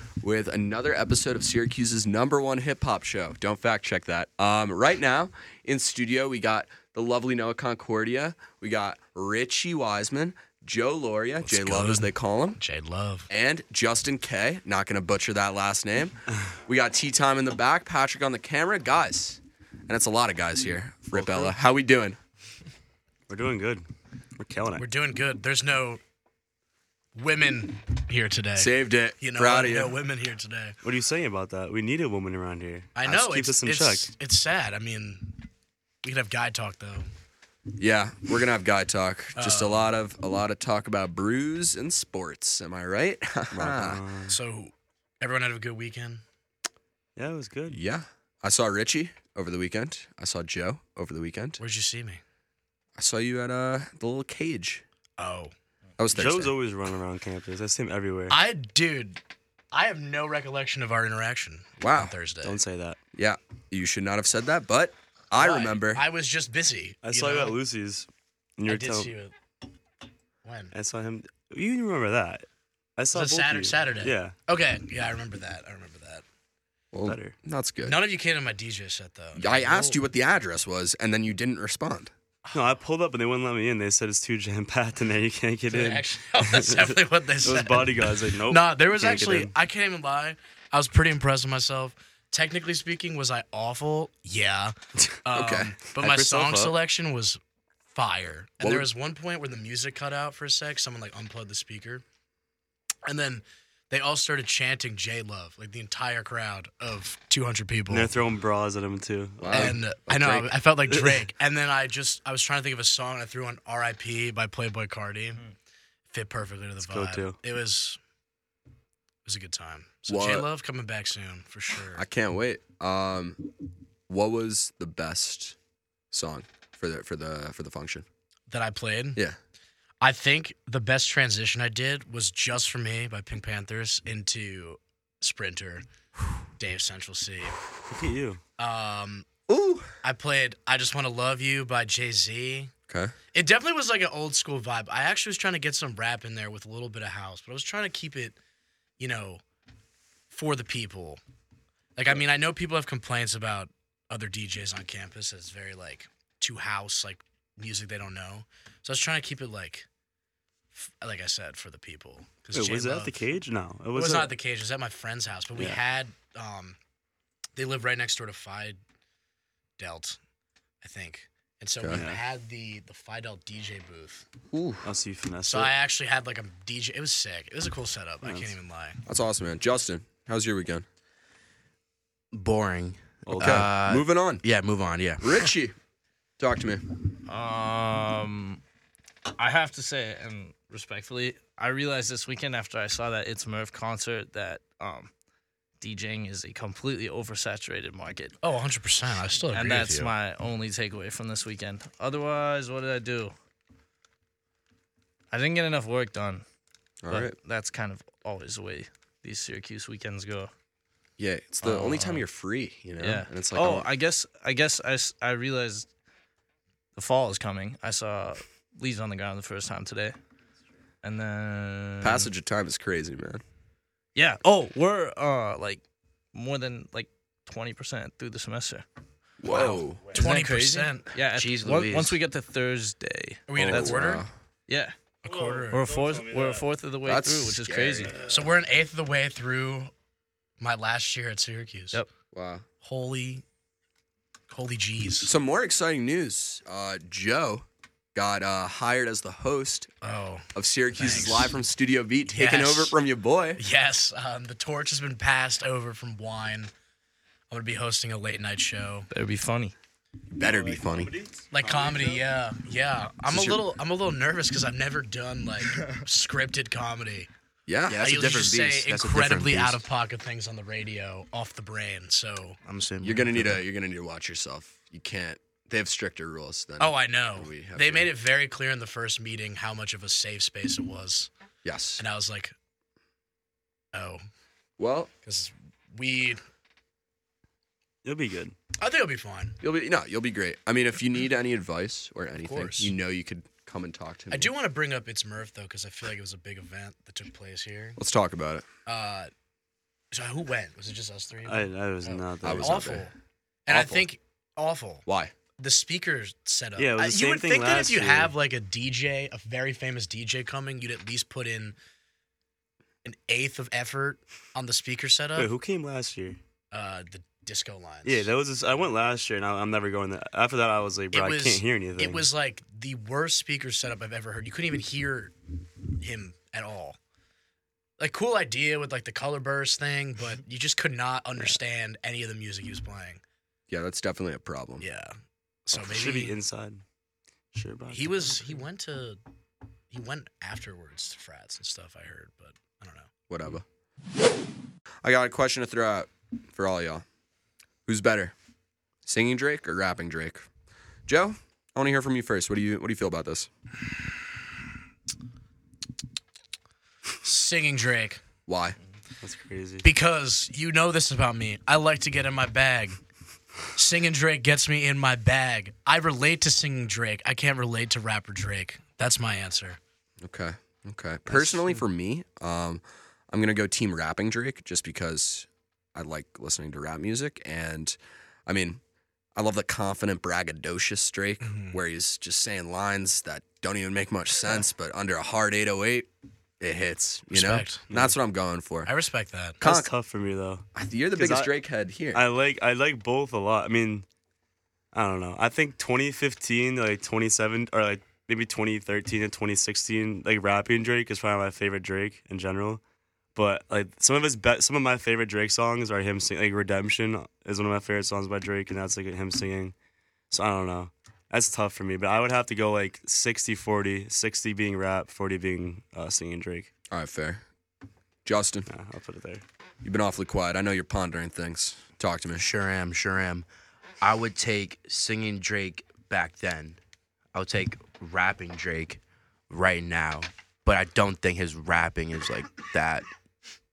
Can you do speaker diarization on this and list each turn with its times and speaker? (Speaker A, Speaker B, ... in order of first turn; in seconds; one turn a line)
Speaker A: 0.2-12.6
Speaker B: 11.4-13.3
Speaker A: 13.3-22.2
Speaker C: 21.1-21.6
Speaker D: 23.3-23.8
Speaker D: 24.4-24.9
Speaker B: 24.8-26.0
Speaker B: 27.1-30.8
Speaker A: 28.6-30.0
Speaker D: 30.8-34.1
Speaker B: 33.0-35.4
Speaker B: 36.0-37.1
Speaker A: 37.8-44.0
Speaker B: 39.4-39.9
Speaker D: 43.5-44.4
Speaker B: 44.3-46.2
Speaker D: 47.2-47.8
Speaker A: 47.7-51.6
Speaker B: 51.6-52.2
Speaker A: 53.0-54.8
Speaker B: 55.2-55.5
Speaker A: 56.0-56.6
Speaker D: 56.1-58.4
Speaker B: 58.3-59.2
Speaker B: 59.7-62.6
Speaker A: 61.8-62.1
Speaker D: 62.4-63.0
Speaker A: 63.1-66.0
Speaker B: 65.4-67.6
Speaker D: 67.0-69.1
Speaker B: 68.7-69.3
Speaker B: 70.4-70.7
Speaker D: 70.7-74.3
Speaker B: 73.1-76.2
Speaker A: 76.9-78.0
Speaker D: 77.0-77.4
Speaker B: 77.9-80.0
Speaker A: 79.4-82.1
Speaker D: 82.5-89.5
Speaker B: 85.7-97.4
Speaker A: 95.3-95.8
Speaker D: 95.9-96.8
Speaker B: 97.9-102.0
Speaker A: 98.6-98.9
Speaker B: 103.1-108.1
Speaker D: 107.9-109.8
Speaker A: 109.4-110.5
Speaker B: 109.5-115.4
Speaker B: 116.1-118.0
Speaker D: 116.8-117.4
Speaker B: 119.2-122.0
Speaker A: 120.1-120.5
Speaker A: 121.9-123.4
Speaker A: 124.1-125.6
Speaker A: 126.1-128.1
Speaker B: 128.5-129.2
Speaker B: 130.0-135.8
Speaker B: 136.6-137.6
Speaker D: 137.9-138.4
Speaker B: 138.6-139.3
Speaker A: 139.5-139.9
Speaker B: 140.0-142.7
Speaker A: 142.9-143.1
Speaker B: 143.3-148.4
Speaker B: 149.0-149.4
Speaker B: 150.3-151.2
Speaker B: 152.0-159.9
Speaker B: 160.7-163.2
Speaker D: 162.5-164.3
Speaker B: 163.9-166.8
Speaker B: 167.6-168.8
Speaker B: 169.8-170.2
Speaker B: 170.8-174.2
Speaker D: 171.9-172.2
Speaker A: 174.5-174.9
Speaker D: 174.8-175.7
Speaker B: 175.4-179.0
Speaker D: 178.2-178.6
Speaker A: 179.1-180.9
Speaker C: 182.3-185.5
Speaker D: 183.3-183.7
Speaker A: 183.4-184.4
Speaker A: 185.2-185.8
Speaker A: 186.4-186.8
Speaker E: 187.3-188.6
Speaker E: 189.4-195.1
Speaker E: 195.8-198.4
Speaker B: 198.4-200.1
Speaker E: 199.5-203.3
Speaker E: 205.3-206.4
Speaker A: 207.0-207.3
Speaker E: 207.1-210.5
Speaker A: 211.2-213.9
Speaker E: 211.6-212.2
Speaker E: 213.0-215.9
Speaker E: 217.0-220.2
Speaker E: 221.0-222.3
Speaker A: 222.0-223.4
Speaker E: 224.2-225.8
Speaker E: 226.3-228.8
Speaker A: 229.4-230.1
Speaker B: 229.5-231.1
Speaker E: 229.5-234.0
Speaker C: 231.3-232.2
Speaker B: 233.5-234.2
Speaker A: 233.6-234.3
Speaker E: 234.7-234.9
Speaker B: 235.2-235.8
Speaker D: 235.3-236.5
Speaker E: 235.7-238.2
Speaker A: 237.1-238.1
Speaker D: 238.1-238.5
Speaker B: 238.3-239.9
Speaker B: 240.6-242.0
Speaker A: 242.3-242.7
Speaker B: 242.8-243.4
Speaker B: 244.5-245.3
Speaker A: 245.2-249.9
Speaker B: 250.0-251.6
Speaker A: 250.6-253.6
Speaker B: 252.3-253.0
Speaker B: 253.6-256.7
Speaker B: 257.5-259.1
Speaker E: 259.1-259.8
Speaker A: 260.3-261.1
Speaker D: 260.4-262.2
Speaker B: 261.5-267.3
Speaker A: 263.3-263.6
Speaker A: 267.7-268.1
Speaker C: 267.9-269.9
Speaker B: 268.0-272.6
Speaker C: 272.6-273.6
Speaker A: 273.0-278.1
Speaker B: 276.8-281.3
Speaker A: 281.6-282.0
Speaker B: 282.0-282.5
Speaker B: 283.9-284.2
Speaker A: 284.8-285.1
Speaker B: 285.2-286.4
Speaker D: 288.0-288.6
Speaker B: 288.8-289.6
Speaker A: 289.6-294.5
Speaker B: 292.4-292.9
Speaker B: 294.3-298.0
Speaker A: 298.0-298.6
Speaker B: 298.9-299.3
Speaker B: 300.1-303.1
Speaker D: 301.4-303.0
Speaker A: 302.4-303.1
Speaker B: 303.7-305.1
Speaker A: 303.7-304.1
Speaker A: 305.1-305.3
Speaker B: 305.6-311.8
Speaker D: 306.8-308.3
Speaker B: 313.0-315.5
Speaker D: 315.4-316.4
Speaker B: 316.7-318.3
Speaker D: 318.1-322.3
Speaker B: 321.1-325.4
Speaker B: 326.0-327.0
Speaker B: 328.0-333.2
Speaker A: 333.7-334.9
Speaker B: 334.8-335.1
Speaker B: 335.7-336.4
Speaker D: 335.8-336.8
Speaker D: 337.5-338.6
Speaker B: 337.9-339.2
Speaker B: 339.9-343.1
Speaker A: 343.3-343.6
Speaker A: 345.0-347.0
Speaker A: 347.9-348.3
Speaker A: 349.1-350.4
Speaker A: 351.1-353.5
Speaker B: 357.2-358.2
Speaker A: 358.5-358.8
Speaker D: 359.2-359.9
Speaker B: 359.8-363.0
Speaker B: 363.8-369.8
Speaker A: 370.2-378.8
Speaker C: 371.3-371.8
Speaker A: 379.4-386.1
Speaker B: 381.4-381.8
Speaker A: 386.6-388.9
Speaker B: 387.3-387.8
Speaker D: 387.9-388.2
Speaker B: 388.9-389.6
Speaker A: 389.6-389.9
Speaker D: 389.6-391.5
Speaker A: 390.8-392.2
Speaker D: 392.1-394.1
Speaker D: 394.9-402.8
Speaker D: 403.4-409.7
Speaker D: 410.3-416.7
Speaker A: 416.9-417.4
Speaker A: 418.2-418.7
Speaker D: 418.7-419.4
Speaker A: 419.8-422.5
Speaker C: 422.3-423.5
Speaker C: 424.0-426.8
Speaker C: 427.3-433.1